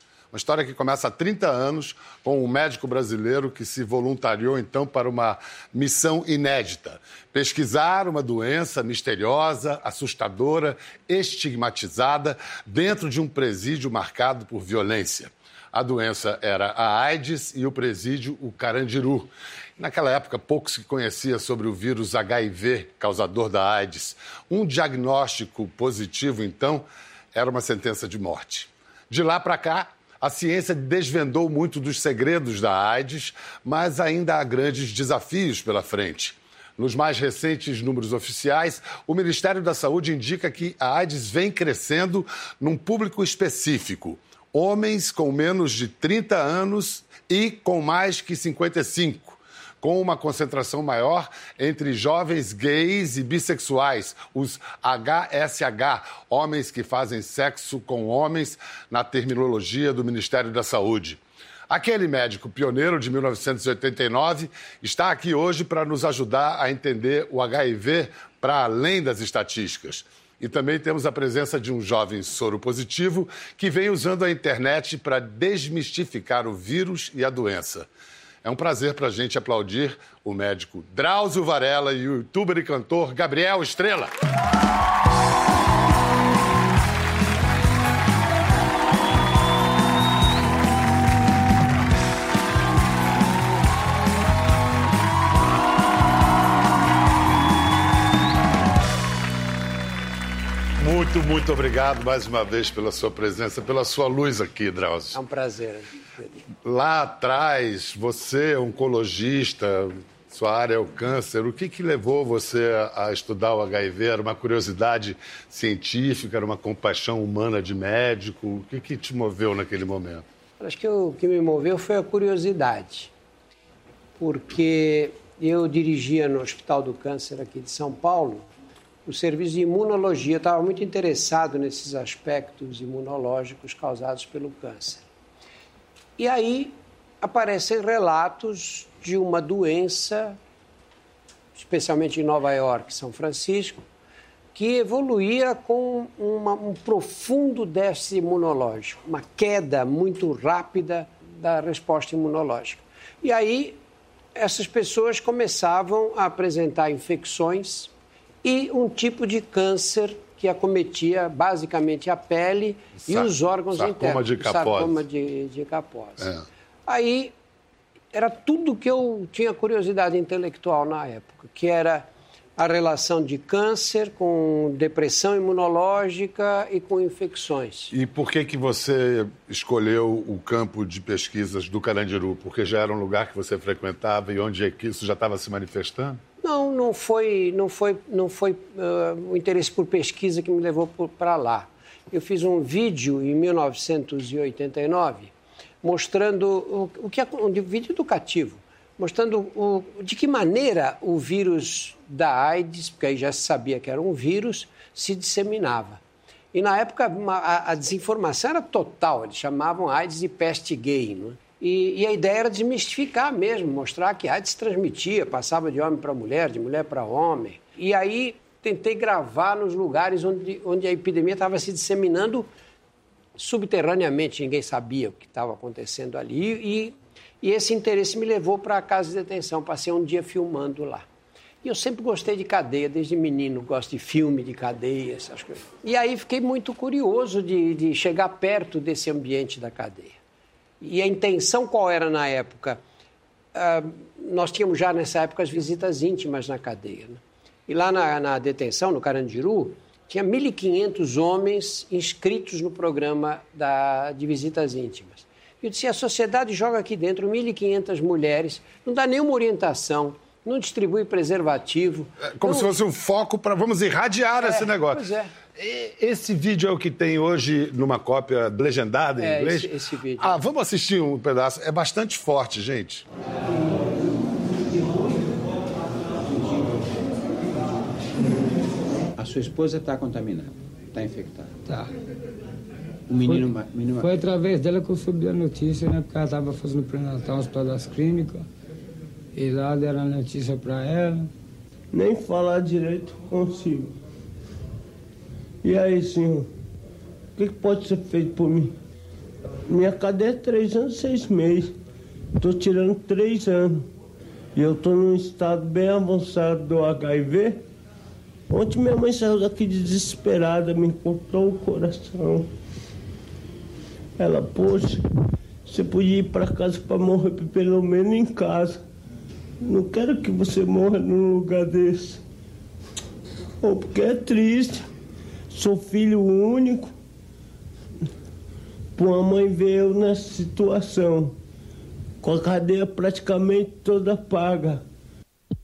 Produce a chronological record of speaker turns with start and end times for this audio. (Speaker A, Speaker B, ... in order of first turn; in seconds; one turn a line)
Speaker A: 0.3-77.9
Speaker A: 78.4-84.1
Speaker A: 100.8-105.2
Speaker B: 105.1-106.5
Speaker A: 106.6-120.2
Speaker B: 120.6-123.1
Speaker B: 124.2-128.5
Speaker B: 129.0-135.0
Speaker B: 136.2-140.4
Speaker B: 141.5-143.8
Speaker B: 144.5-153.8
Speaker B: 154.3-157.9
Speaker B: 158.4-166.3
Speaker A: 163.0-165.0
Speaker A: 166.2-166.4
Speaker B: 166.9-167.3
Speaker B: 168.1-177.9
Speaker A: 177.9-186.2
Speaker B: 186.4-195.3
Speaker B: 195.8-206.0
Speaker B: 206.5-222.5
Speaker B: 223.3-231.1
Speaker B: 231.6-240.2
Speaker B: 240.8-242.8
Speaker B: 243.5-262.7
Speaker A: 262.2-265.0
Speaker B: 264.4-265.3
Speaker A: 265.6-273.1
Speaker B: 269.2-270.4
Speaker C: 279.2-281.5
Speaker D: 281.6-281.9
Speaker C: 283.1-284.1
Speaker D: 283.2-288.5
Speaker D: 289.3-291.3
Speaker E: 291.9-293.9
Speaker E: 295.6-296.5
Speaker E: 297.4-298.8
Speaker E: 299.7-301.8
Speaker E: 302.4-303.9
Speaker E: 304.6-307.6
Speaker E: 308.5-312.5
Speaker E: 314.2-315.1
Speaker E: 315.6-318.8
Speaker E: 319.6-322.2
Speaker E: 323.6-324.9
Speaker E: 325.5-326.9
Speaker E: 328.9-331.4
Speaker E: 332.2-334.8